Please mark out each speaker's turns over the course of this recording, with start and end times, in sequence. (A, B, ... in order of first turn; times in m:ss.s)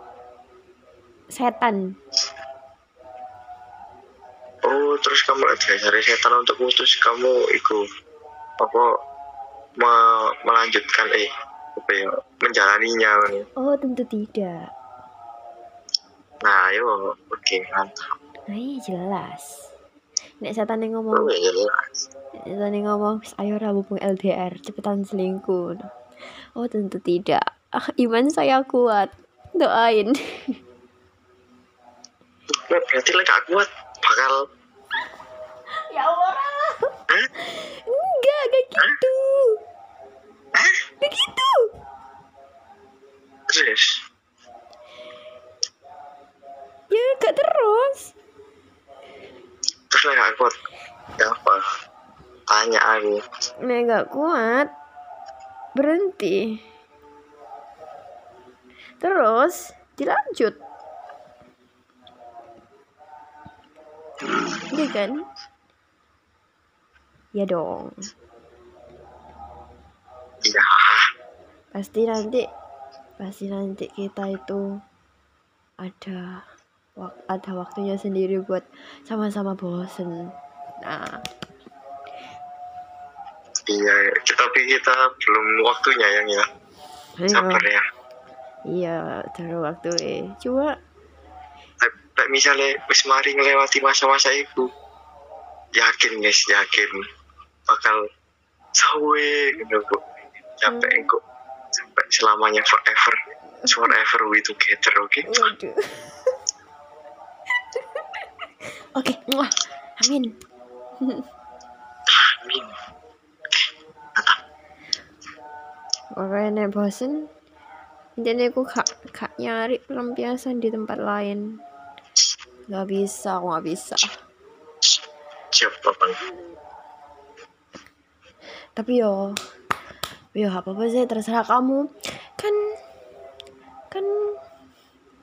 0:01.3-0:02.0 A
0:04.7-0:07.8 B
0:08.6-0:08.8 B
0:09.8-0:13.5 B
0:13.6-0:14.7 A
0:16.4-0:17.9 B
0:18.5-0:19.6 A
0:20.4-0:21.3 A
0:21.1-0:21.7 B
0:22.4-0:25.9 A
0:26.6-0:30.6 A
0:32.6-0:34.4 B
0:35.9-0:39.6 A
0:41.0-0:41.7 A
0:43.5-0:43.9 B
0:46.9-0:48.1 A
0:49.9-0:50.5 B
0:51.2-0:51.6 B
0:52.5-0:53.2 B
0:53.6-0:54.7 A
0:55.7-0:56.6 A
0:59.0-1:00.6 A
1:04.7-1:05.3 A
1:07.3-1:08.1 A
1:10.5-1:11.0 B
1:11.7-1:12.4 A
1:13.2-1:14.6 A
1:15.8-1:16.4 A
1:17.0-1:21.2 A
1:23.7-1:26.4 B
1:27.2-1:27.6 A
1:27.3-1:27.8 B
1:28.6-1:30.8 A
1:31.8-1:34.7 B
1:35.8-1:36.9 B
1:37.7-1:38.0 B
1:38.8-1:40.0 B
1:40.6-1:41.2 B
1:40.7-1:41.0 A
1:41.8-1:43.2 B
1:43.6-1:43.9 A
1:43.7-1:45.4 B
1:45.3-1:46.4 A
1:48.9-1:50.3 A
1:52.3-1:52.7 B
1:56.1-1:57.3 A
1:58.2-2:01.6 A
2:02.7-2:04.1 A
2:05.5-2:06.2 B
2:08.8-2:09.3 A
2:10.3-2:12.6 A
2:13.9-2:14.4 A